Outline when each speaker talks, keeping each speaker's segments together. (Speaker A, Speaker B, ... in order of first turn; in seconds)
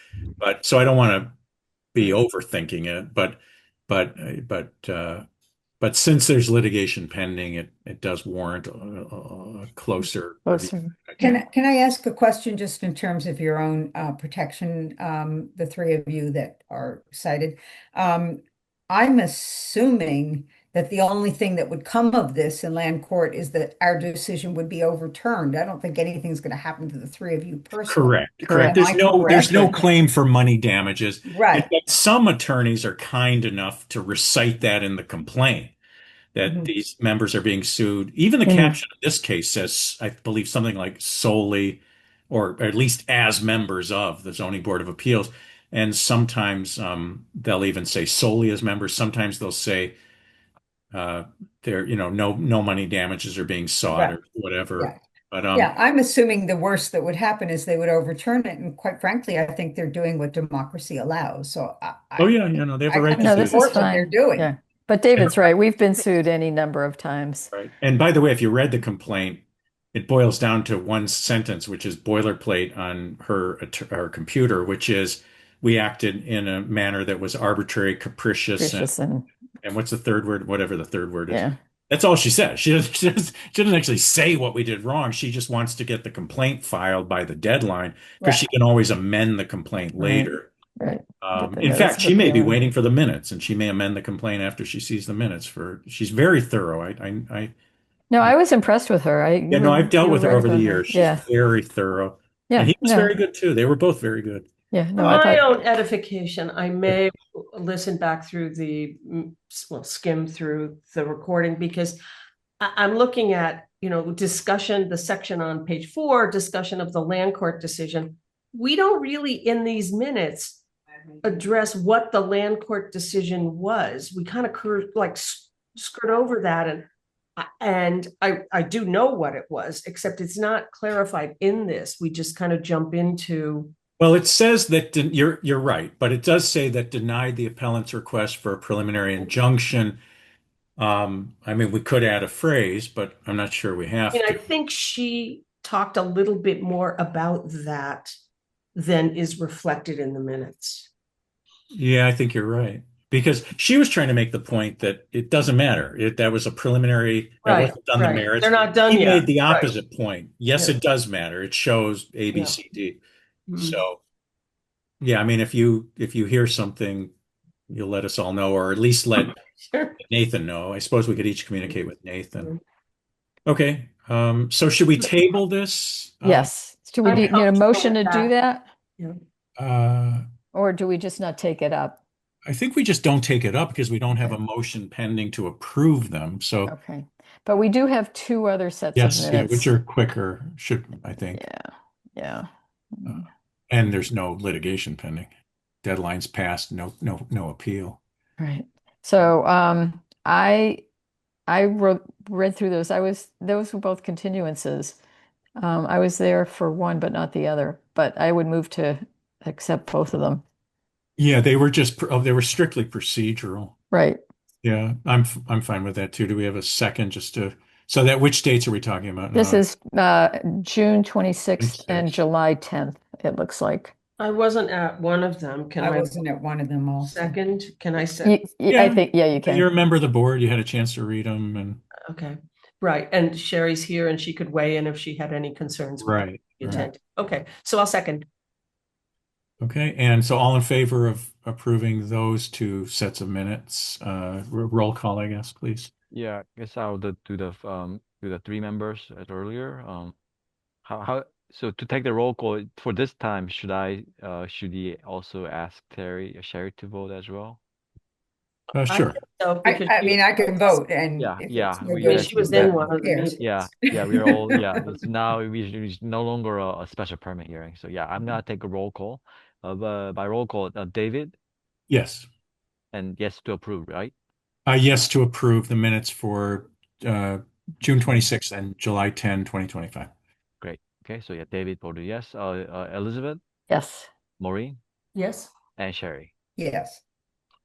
Speaker A: 0.4-1.3, 1.9-5.2, 5.8-11.3, 27.9-35.7, 36.3-50.0, 50.9-55.7, 62.2-63.9, 67.5-69.4, 69.9-78.9, 79.6-90.5, 91.2-97.5, 99.5-104.5, 134.0-140.0, 140.8-144.4, 151.7-163.0, 163.6-164.0, 165.0-167.1, 167.7-169.4, 170.0-172.5, 173.4-176.5, 177.1-177.3, 179.6-180.2, 182.4-186.7, 188.9-191.4, 193.0-195.3, 195.8-198.0, 211.2-213.7, 214.6-219.6, 221.6-222.1, 228.7-231.8, 236.0-236.9, 239.6-245.9, 258.7-259.2, 271.9-272.3, 274.6-280.1
Speaker B: 10.4-11.4, 28.5-29.7, 38.4-38.8, 63.1-67.5, 78.6-79.2, 81.3-81.5, 89.9-92.6, 98.1-101.2, 102.5-103.2, 104.7-105.4, 176.2-178.7, 180.5-182.0, 186.7-189.7, 191.3-193.2, 198.4-200.8, 201.5-205.0, 205.6-210.4, 213.9-214.2, 219.3-223.9, 228.2-229.7, 283.7-284.1
Speaker C: 11.2-29.9, 31.2-31.7, 36.4-36.7, 55.5-62.3, 62.9-64.5, 225.8-227.3, 259.6-264.9, 286.6-287.0
Speaker D: 105.0-112.0, 112.6-120.6, 121.2-126.8, 127.4-133.7, 144.1-148.1, 148.7-150.9, 157.4-159.8, 163.5-163.8, 169.7-170.0, 177.0-178.3, 224.2-226.2, 227.0-228.3, 232.1-238.2, 258.9-260.6, 262.0-263.7, 285.1-285.6
Speaker E: 246.1-250.2, 250.8-257.6, 261.2-271.4, 272.9-274.1, 280.6-283.4, 284.4-284.8, 285.7-286.3